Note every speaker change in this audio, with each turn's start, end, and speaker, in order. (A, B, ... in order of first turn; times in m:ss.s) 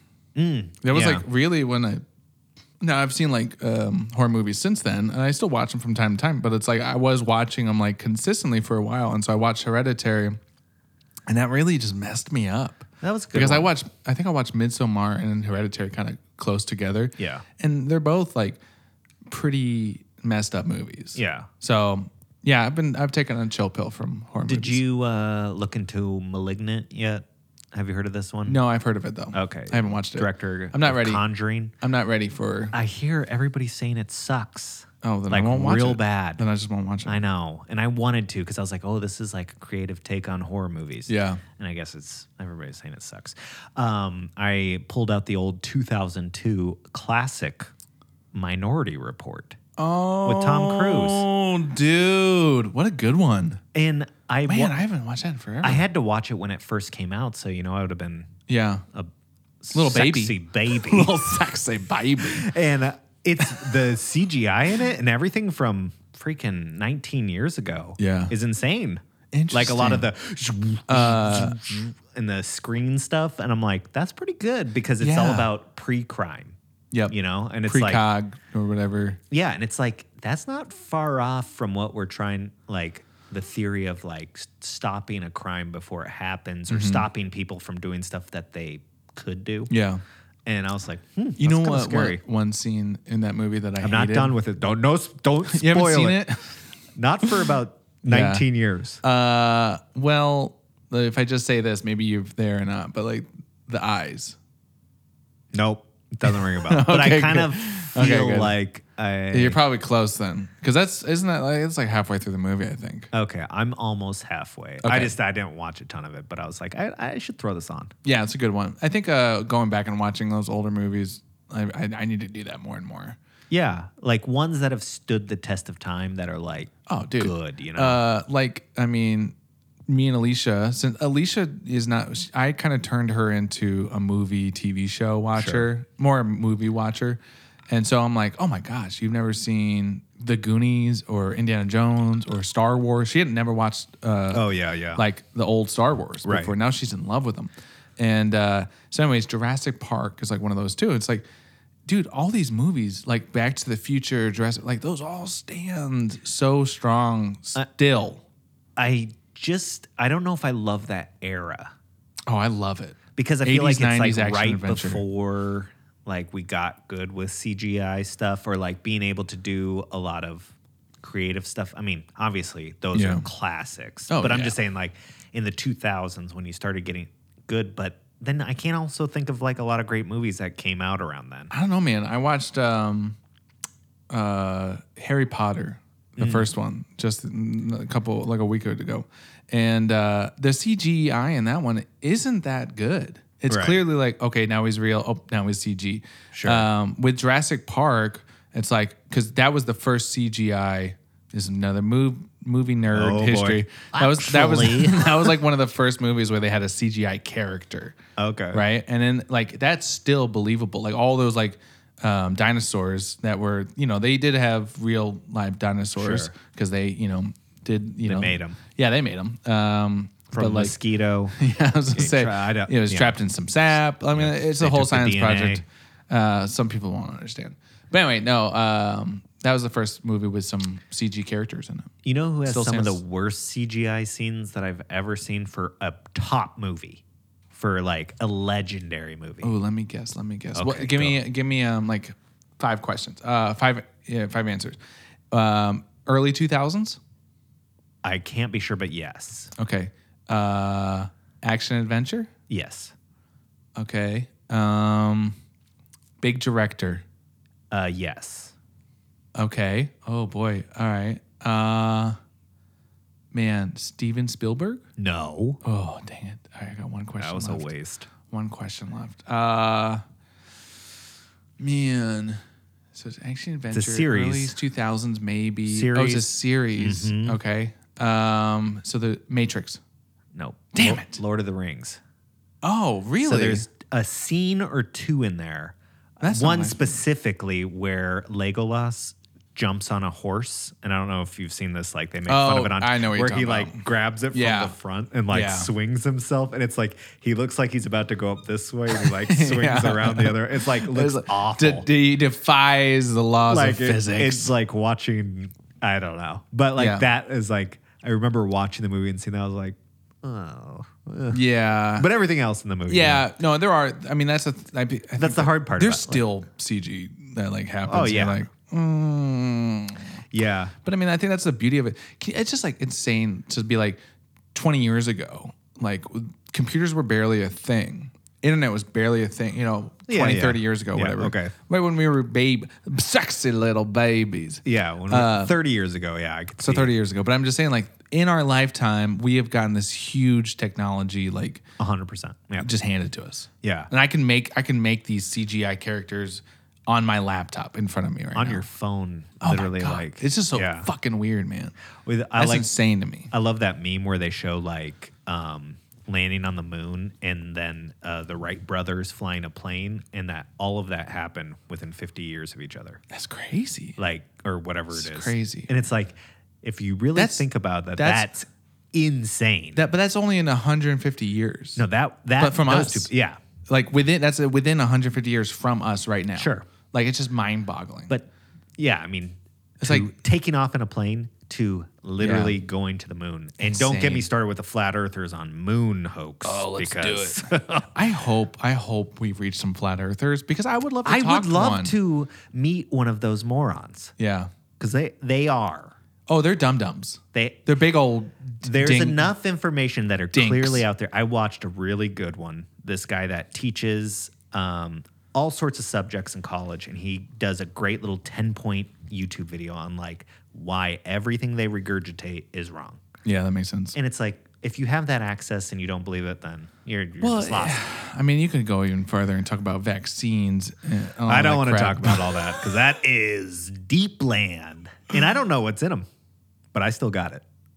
0:00.3-0:01.2 A
0:00.8-0:02.0 B
0:02.8-0:10.4 B
0:11.3-0:18.6 B
0:13.0-0:13.7 A
0:17.2-0:17.4 A
0:19.3-0:24.8 B
0:21.1-0:21.5 A
0:24.4-0:28.6 A
0:28.4-0:31.2 B
0:29.3-0:31.7 A
0:31.8-0:32.7 B
0:32.7-0:36.4 A
0:35.0-0:37.2 B
0:37.0-0:47.7 A
0:41.1-0:41.4 B
0:48.3-0:49.6 A
0:49.8-0:53.6 B
0:50.2-0:51.2 A
0:53.7-0:54.8 A
0:54.5-0:55.8 B
0:55.6-0:58.3 A
0:58.5-0:58.8 B
0:59.6-1:01.1 A
0:59.7-1:02.5 B
1:02.2-1:16.6 A
1:08.0-1:08.3 B
1:09.3-1:10.1 B
1:10.9-1:11.6 B
1:15.0-1:15.5 B
1:16.9-1:19.2 B
1:17.1-1:18.0 A
1:19.3-1:29.7 A
1:26.7-1:27.0 B
1:29.7-1:30.0 B
1:30.4-1:32.2 A
1:31.4-1:34.3 B
1:33.8-1:36.2 A
1:35.5-1:36.6 B
1:36.9-1:39.0 A
1:38.0-1:38.4 B
1:39.0-1:44.4 B
1:45.5-1:49.6 A
1:46.6-1:48.5 B
1:49.3-1:53.1 B
1:53.1-1:57.9 A
1:54.8-1:55.1 B
1:58.0-2:03.2 B
2:03.5-2:08.0 A
2:06.9-2:09.3 B
2:09.9-2:31.2 B
2:15.4-2:15.7 A
2:24.3-2:25.0 A
2:26.2-2:26.5 A
2:31.9-2:38.2 B
2:38.8-2:41.7 A
2:42.3-2:45.0 B
2:43.2-3:01.5 A
2:52.9-2:53.2 B
2:54.1-2:54.5 B
3:01.5-3:03.2 B
3:04.1-3:28.0 B
3:06.2-3:06.5 A
3:13.5-3:13.8 A
3:16.3-3:16.6 A
3:22.9-3:25.3 A
3:28.2-3:28.6 A
3:28.5-3:40.7 B
3:36.0-3:36.3 A
3:38.0-3:38.6 A
3:40.3-3:41.4 A
3:41.4-3:51.9 B
3:41.9-3:43.2 A
3:44.1-3:45.6 A
3:52.0-3:59.5 A
3:52.5-3:53.0 B
3:59.4-4:04.8 B
4:00.5-4:01.2 A
4:05.3-4:07.0 B
4:08.0-4:09.5 A
4:09.6-4:12.3 B
4:12.5-4:12.9 A
4:13.8-4:15.3 B
4:16.2-4:17.0 B
4:17.7-4:18.5 A
4:19.4-4:22.2 B
4:23.3-4:24.8 B
4:25.0-4:25.6 A
4:25.6-4:27.7 B
4:27.2-4:28.1 A
4:28.3-4:30.0 B
4:31.6-4:32.4 B
4:32.9-4:39.8 B
4:33.7-4:34.6 A
4:35.7-4:37.4 A
4:40.3-4:42.0 A
4:40.7-4:41.2 B
4:42.6-4:43.7 B
4:43.2-4:45.8 A
4:46.2-4:46.9 B
4:46.3-5:01.9 A
4:52.3-4:54.8 B
4:55.3-4:55.7 B
4:58.9-5:04.5 B
5:03.5-5:11.4 A
5:06.8-5:07.0 B
5:11.3-5:12.1 B
5:12.0-5:13.2 A
5:12.9-5:20.0 B
5:15.2-5:16.2 A
5:17.9-5:18.4 A
5:20.3-5:20.7 A
5:20.8-5:24.0 B
5:24.5-5:35.5 B
5:30.1-5:31.5 A
5:34.6-5:36.9 A
5:36.6-5:41.6 B
5:41.8-5:42.7 A
5:42.6-5:48.6 B
5:43.6-5:43.9 A
5:48.3-5:50.9 A
5:49.4-5:51.7 B
5:52.0-5:52.7 A
5:52.4-5:53.3 B
5:53.3-6:03.0 A
6:03.1-6:04.0 B
6:04.0-6:09.8 A
6:04.9-6:05.7 B
6:07.1-6:07.4 B
6:08.0-6:08.3 B
6:09.7-6:11.8 B
6:11.8-6:13.4 A
6:12.4-6:13.1 B
6:13.7-6:18.1 B
6:16.3-6:16.6 A
6:18.1-6:27.9 A
6:19.8-6:20.1 B
6:22.2-6:22.6 B
6:23.6-6:24.3 B
6:26.4-6:31.9 B
6:31.0-6:34.1 A
6:34.2-6:34.5 B
6:34.8-6:35.9 A
6:36.3-6:39.3 B
6:37.3-6:37.7 A
6:38.6-6:53.0 A
6:40.3-6:40.8 B
6:53.2-6:54.0 B
6:53.9-6:57.8 A
6:57.2-7:02.2 B
7:01.3-7:06.1 A
7:06.7-7:07.4 A